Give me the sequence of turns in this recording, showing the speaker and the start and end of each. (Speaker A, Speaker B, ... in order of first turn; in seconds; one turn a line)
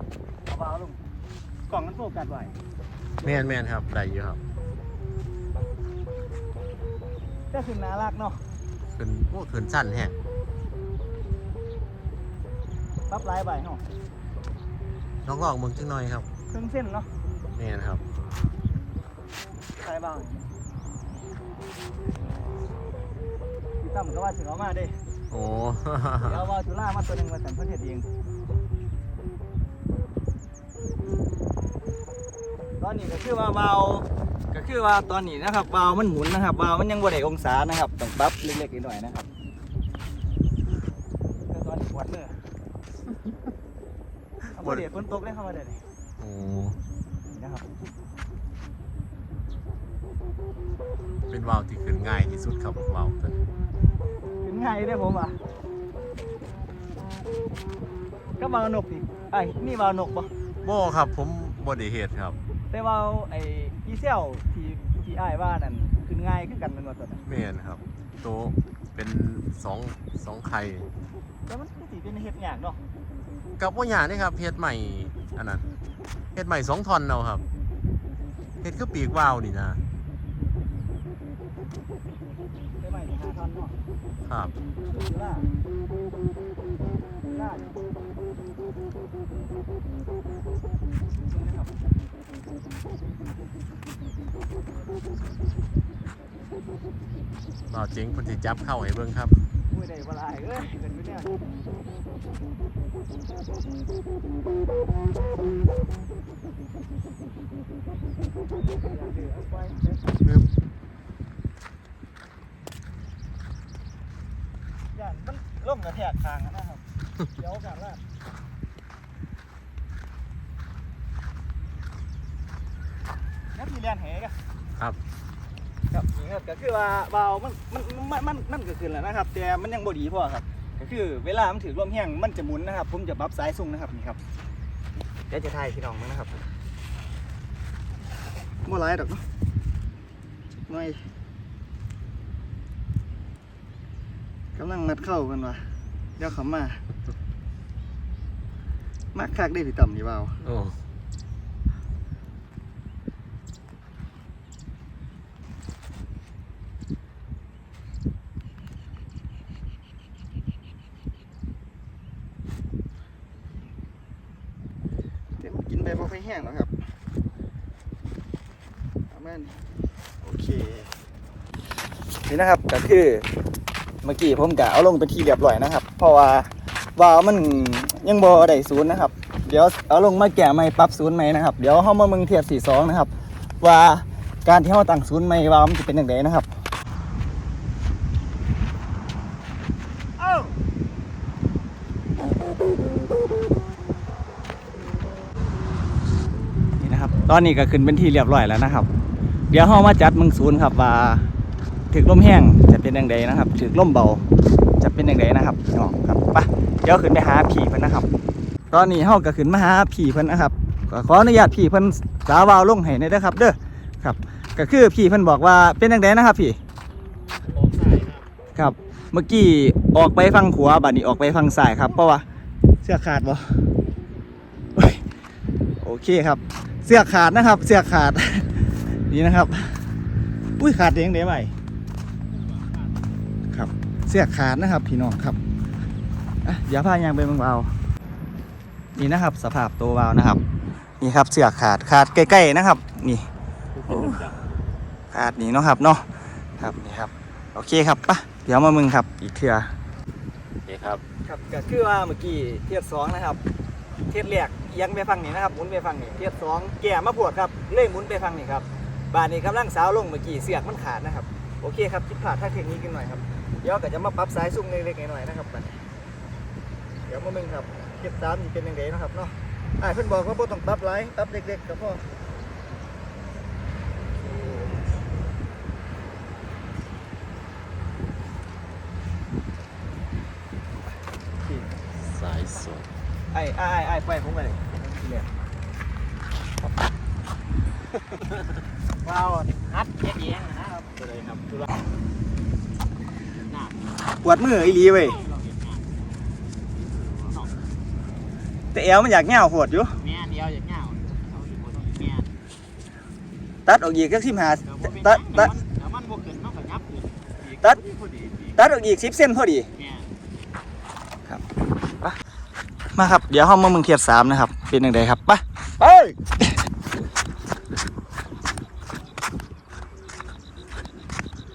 Speaker A: 0.5-1.0
Speaker A: 1.7-2.5
Speaker B: 3.2-4.4
Speaker A: 7.5-8.4
Speaker B: 9.0-10.1
Speaker A: 13.1-13.8
Speaker B: 15.2-16.3
Speaker A: 16.5-17.1
Speaker B: 17.6-18.0
Speaker A: 19.8-20.5
Speaker A: 23.8-24.9
Speaker B: 25.3-26.4
Speaker A: 26.2-28.1
Speaker A: 32.8-39.3
Speaker A: 41.5-42.4
Speaker A: 44.5-45.8
Speaker B: 46.2-46.8
Speaker A: 47.3-47.6
Speaker B: 51.3-53.4
Speaker A: 54.4-55.4
Speaker A: 58.4-60.3
Speaker B: 60.6-62.4
Speaker A: 62.7-67.2
Speaker B: 67.2-70.9
Speaker A: 71.5-72.8
Speaker B: 73.6-75.7
Speaker B: 76.3-77.4
Speaker B: 78.6-79.8
Speaker A: 82.8-83.8
Speaker B: 84.2-84.5
Speaker A: 84.8-85.5
Speaker A: 87.2-87.9
Speaker A: 91.2-91.8
Speaker B: 97.7-99.3
Speaker A: 99.7-101.4
Speaker A: 108.7-110.0
Speaker A: 114.9-118.0
Speaker A: 123.5-124.3
Speaker A: 125.9-134.2
Speaker A: 135.3-136.4
Speaker A: 138.7-139.2
Speaker A: 140.7-141.0
Speaker A: 144.6-145.7
Speaker A: 146.2-146.8
Speaker A: 149.1-150.4
Speaker B: 150.4-150.8
Speaker A: 165.4-166.7
Speaker A: 169.1-169.6
Speaker A: 170.2-170.9
Speaker A: 172.2-173.3
Speaker A: 174.0-186.5
Speaker A: 196.8-198.9
Speaker A: 199.5-201.3
Speaker A: 201.9-204.2
Speaker A: 204.8-208.1
Speaker A: 208.7-216.6
Speaker C: 217.6-218.2
Speaker A: 218.5-222.2
Speaker A: 222.8-223.6
Speaker A: 224.8-225.0
Speaker A: 225.8-229.8
Speaker A: 230.6-231.5
Speaker A: 233.5-235.4
Speaker A: 236.4-237.7
Speaker A: 239.0-240.4
Speaker A: 241.0-243.3
Speaker A: 243.9-244.3
Speaker A: 245.1-246.0
Speaker A: 246.6-249.7
Speaker B: 250.7-251.0
Speaker A: 251.2-253.4
Speaker A: 254.1-265.7
Speaker A: 267.1-272.0
Speaker A: 281.4-281.8
Speaker B: 282.0-282.9
Speaker A: 283.3-285.3
Speaker C: 289.2-291.0
Speaker A: 294.2-295.2
Speaker C: 297.1-297.5
Speaker A: 298.7-300.0
Speaker C: 300.0-302.3
Speaker A: 303.6-305.6
Speaker C: 304.8-307.1
Speaker A: 307.5-307.9
Speaker C: 307.9-308.4
Speaker A: 308.5-309.7
Speaker A: 312.9-316.6